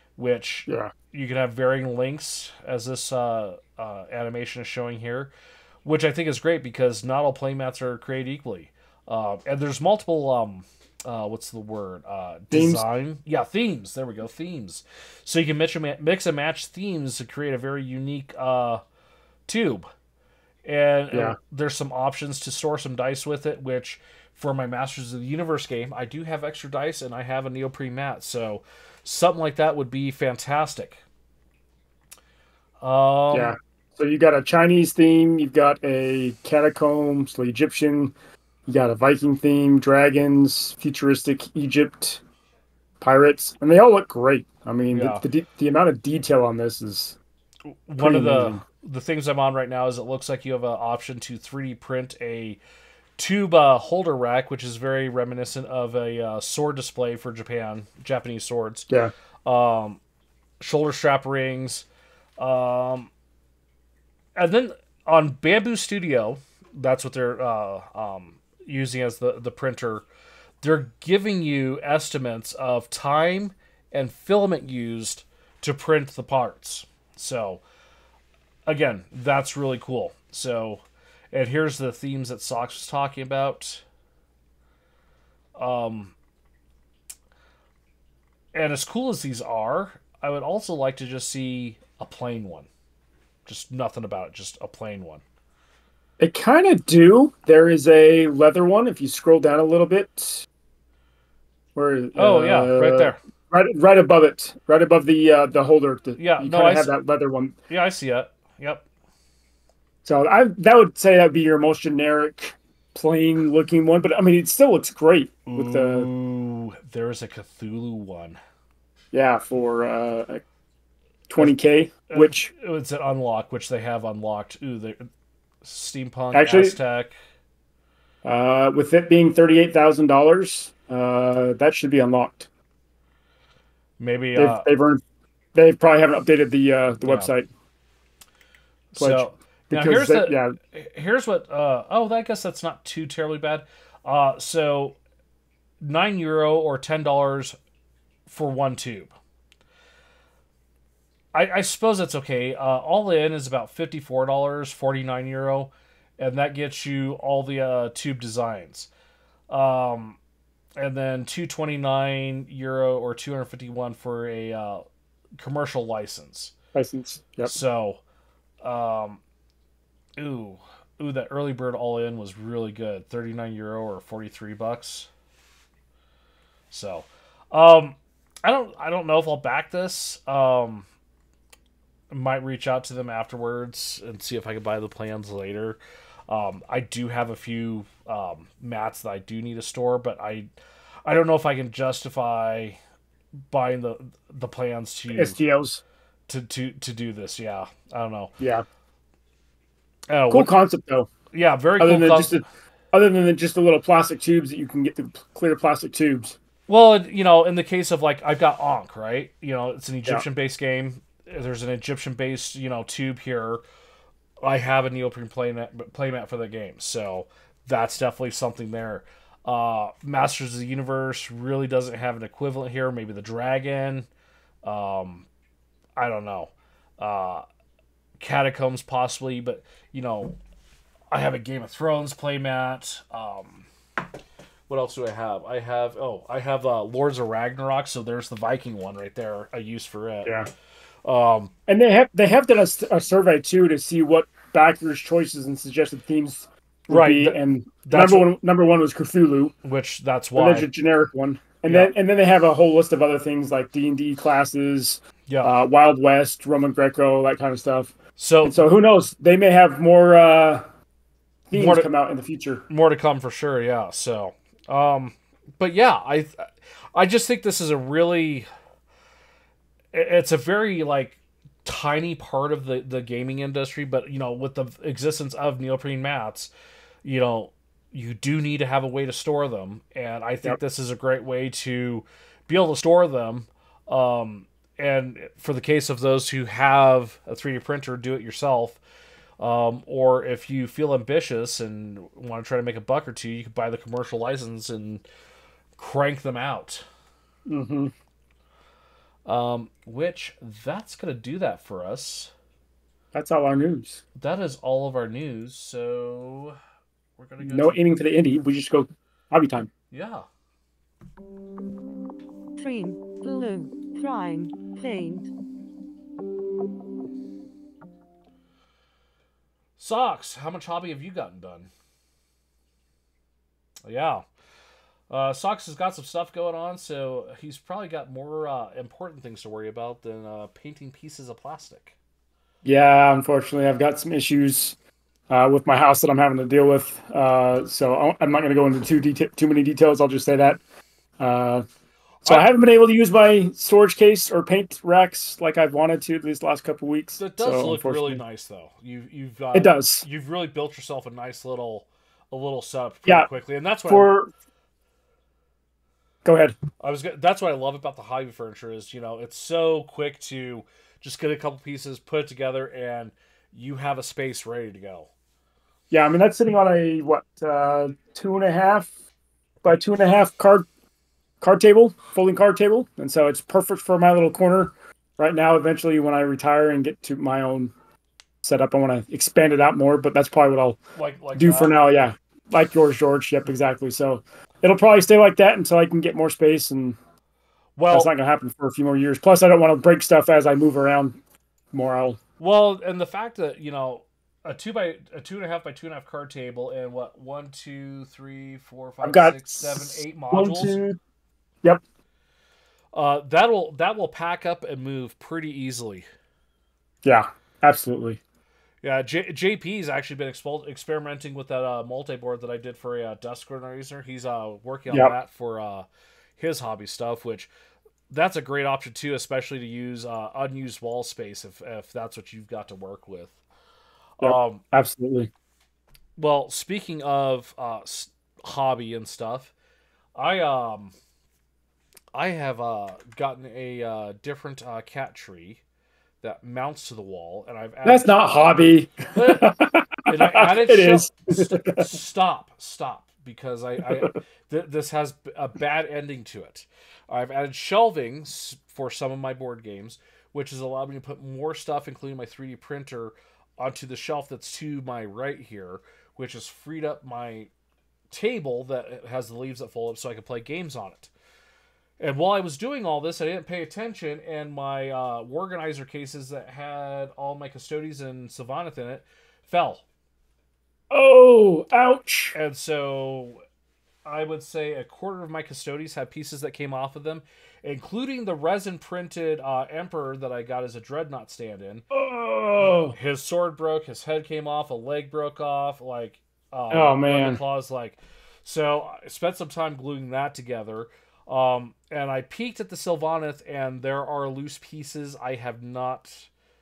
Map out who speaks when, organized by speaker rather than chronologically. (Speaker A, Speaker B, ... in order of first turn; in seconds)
Speaker A: 0.2-5.3, 5.8-18.8, 19.5-19.9, 20.6-31.0, 32.8-33.5, 44.9-45.2, 47.7-52.6, 53.2-58.9, 59.4-60.0, 60.6-61.9, 62.4-63.1, 64.3-70.0, 70.6-77.6, 78.7-83.8, 85.5-86.1, 88.5-92.7, 93.5-95.2, 102.2-103.2, 106.2-106.9, 107.7-108.9, 115.5-118.4, 122.1-125.1, 125.6-127.1, 134.0-134.7, 137.0-137.3, 138.9-145.0, 145.8-147.6, 148.3-149.1, 151.3-158.9, 159.5-160.2, 160.8-164.9, 165.4-166.5, 167.4-168.0, 168.6-169.2, 170.2-175.1, 176.7-180.9, 182.1-190.5, 191.1-192.8, 193.5-195.4, 196.3-198.3, 200.1-200.5, 201.3-202.4, 206.7-213.6, 214.4-224.1, 224.6-225.2, 226.0-227.4, 228.2-230.4, 231.1-233.7, 234.7-240.4, 241.0-241.5, 246.9-248.3, 249.6-250.7, 251.7-251.9, 255.3-255.5, 258.2-258.6, 261.5-261.9, 262.7-268.5, 269.9-276.5, 277.0-288.8, 289.4-295.0, 295.8-296.9, 299.2-302.3, 304.1-306.6, 307.2-307.8, 309.9-310.2, 319.8-321.7, 323.8-324.2, 325.1-331.9, 347.1-354.1, 356.8-365.1, 380.9-381.8, 387.8-388.1, 392.4-400.8, 402.9-406.1, 408.8-417.5, 418.1-423.4, 424.2-424.6, 426.2-429.5, 430.1-430.9, 432.1-435.6, 436.2-438.2, 439.1-457.5, 458.1-461.1, 462.0-469.8, 472.3-473.4, 474.1-481.8, 482.6-496.3
Speaker B: 0.7-0.9, 12.5-12.8, 21.1-21.4, 33.3-38.1, 38.7-42.2, 43.0-47.2, 48.0-48.6, 96.2-100.5, 101.7-107.5, 110.0-116.1, 119.1-120.4, 121.3-122.5, 126.3-126.8, 128.2-132.5, 134.4-135.0, 135.6-137.5, 138.9-140.6, 166.7-167.5, 195.1-195.8, 198.4-198.6, 200.3-201.1, 201.8-206.4, 240.2-240.5, 241.7-249.6, 250.4-260.7, 261.5-262.6, 297.4-297.9, 303.1-304.0, 307.4-309.7, 332.6-334.8, 335.3-340.6, 341.2-341.6, 342.2-348.2, 349.5-350.1, 353.9-354.3, 356.2-356.6, 365.9-368.9, 369.6-370.7, 371.4-377.7, 378.4-380.8, 381.3-387.0, 387.9-391.2, 391.7-392.2, 399.0-401.0, 407.0-408.2, 414.9-415.1, 424.2-425.3, 437.8-441.9, 470.9-472.4, 481.9-483.0, 486.7-487.4
Speaker C: 312.6-315.3